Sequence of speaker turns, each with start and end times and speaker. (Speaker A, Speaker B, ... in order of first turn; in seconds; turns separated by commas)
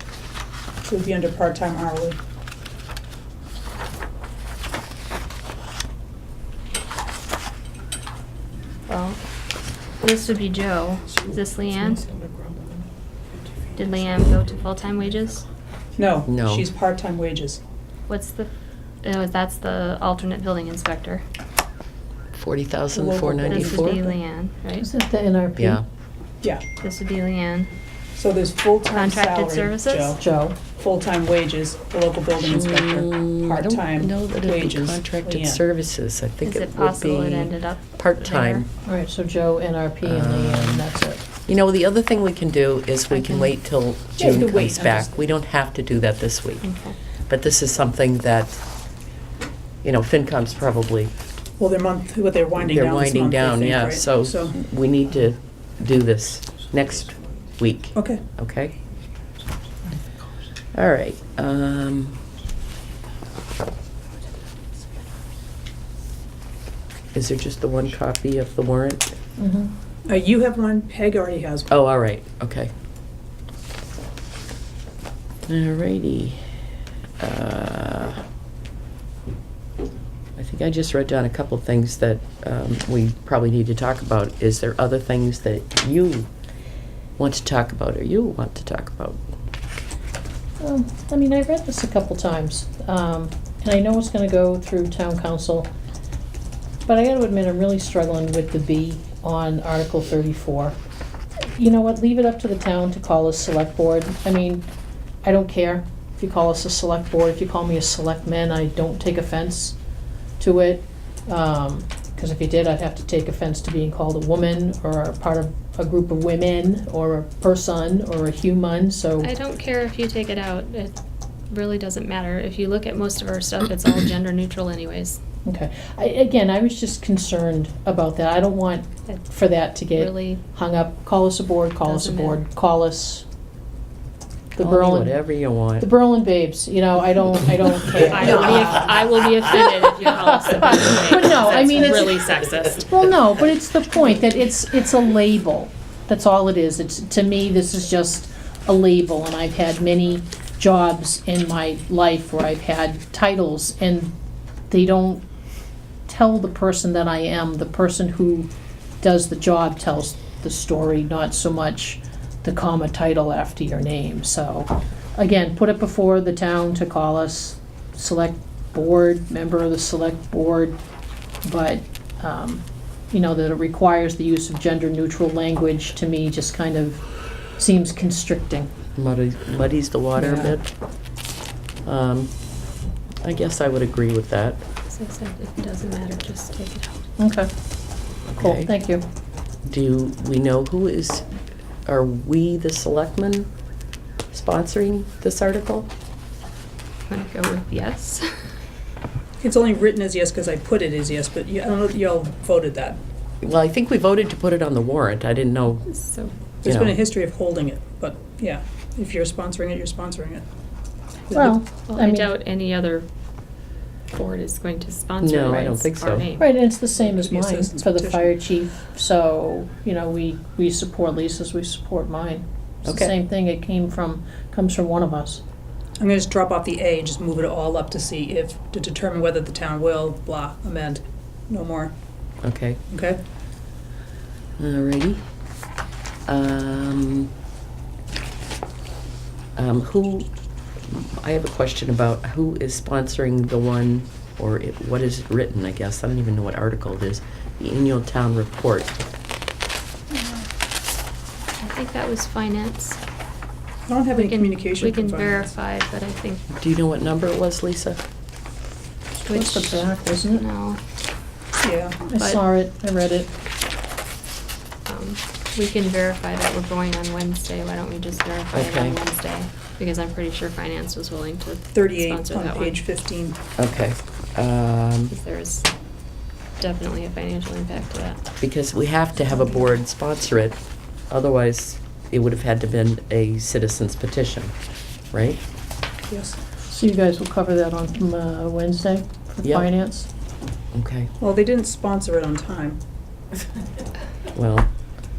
Speaker A: 0.8-2.2, Speaker B: 8.9-9.2, Speaker B: 10.0-12.1, Speaker B: 13.7-15.4, Speaker A: 16.0-17.6, Speaker C: 16.2-16.7, Speaker B: 18.1-18.5, Speaker B: 19.0-21.2, Speaker C: 22.4-24.0, Speaker A: 22.9-24.1, Speaker B: 23.4-24.9, Speaker D: 24.8-25.8, Speaker C: 25.6-25.8, Speaker B: 26.8-27.7, Speaker A: 28.1-30.2, Speaker B: 28.9-30.2, Speaker D: 30.2-30.6, Speaker A: 30.7-35.6, Speaker C: 32.4-38.7, Speaker B: 36.4-38.7, Speaker D: 38.8-41.2, Speaker C: 40.0-40.8, Speaker C: 41.5-46.7, Speaker B: 43.1-43.5, Speaker A: 44.2-45.1, Speaker B: 46.6-46.9, Speaker C: 47.3-48.6, Speaker C: 49.8-51.1, Speaker A: 51.6-54.5, Speaker C: 52.6-58.7, Speaker A: 57.9-58.2, Speaker C: 60.7-62.2, Speaker C: 67.1-69.1, Speaker D: 69.4-69.7, Speaker A: 70.1-71.7, Speaker C: 71.7-72.7, Speaker C: 75.5-76.4, Speaker C: 77.2-78.2, Speaker C: 80.4-86.3, Speaker C: 87.2-89.2, Speaker D: 90.6-95.7, Speaker D: 96.9-100.8, Speaker D: 101.5-104.7, Speaker D: 105.2-109.8, Speaker D: 110.4-119.3, Speaker B: 119.2-120.9, Speaker B: 121.5-125.2, Speaker D: 125.4-133.2, Speaker B: 129.9-130.4, Speaker B: 131.8-132.4, Speaker D: 134.6-135.3, Speaker C: 134.6-135.9, Speaker D: 135.8-138.9, Speaker B: 138.0-142.9, Speaker C: 138.2-138.8, Speaker D: 139.4-154.1, Speaker D: 154.7-155.2, Speaker D: 156.1-158.5, Speaker D: 159.0-170.8, Speaker D: 171.4-177.0, Speaker D: 177.6-178.7, Speaker C: 178.9-180.7, Speaker D: 180.2-180.6, Speaker C: 181.8-182.3, Speaker C: 183.2-184.6, Speaker B: 184.9-187.0, Speaker D: 187.2-187.5, Speaker C: 188.3-188.7, Speaker D: 188.4-189.0, Speaker C: 189.7-191.2, Speaker C: 191.9-193.5, Speaker C: 194.3-195.9, Speaker B: 197.1-198.2, Speaker A: 199.4-203.0, Speaker C: 203.4-205.9, Speaker B: 205.9-206.3, Speaker A: 206.6-210.4, Speaker C: 206.6-207.0, Speaker A: 211.3-211.6, Speaker D: 211.3-212.3, Speaker B: 211.9-213.1, Speaker B: 214.1-216.5, Speaker C: 215.2-216.3, Speaker D: 216.4-225.4, Speaker A: 216.9-218.4, Speaker C: 222.8-223.1, Speaker A: 226.0-231.9, Speaker C: 232.4-232.8, Speaker A: 232.9-233.2, Speaker C: 234.6-235.2, Speaker C: 236.3-237.3, Speaker C: 239.6-240.3, Speaker C: 240.9-248.9, Speaker B: 251.6-253.0, Speaker A: 253.8-255.5, Speaker B: 254.1-256.4, Speaker C: 256.5-258.0, Speaker B: 259.2-260.8, Speaker D: 259.3-260.4, Speaker A: 261.6-262.1, Speaker D: 262.1-263.3, Speaker B: 262.1-262.4, Speaker B: 264.9-272.8, Speaker C: 268.5-268.9, Speaker A: 271.7-273.4, Speaker C: 273.6-275.1, Speaker B: 275.1-275.7, Speaker B: 276.6-278.2, Speaker C: 278.4-280.6, Speaker C: 281.1-284.5, Speaker C: 285.1-285.4, Speaker A: 286.1-286.4, Speaker D: 286.7-290.1, Speaker C: 289.4-289.7, Speaker C: 290.7-291.1, Speaker A: 291.2-292.8, Speaker C: 294.3-294.7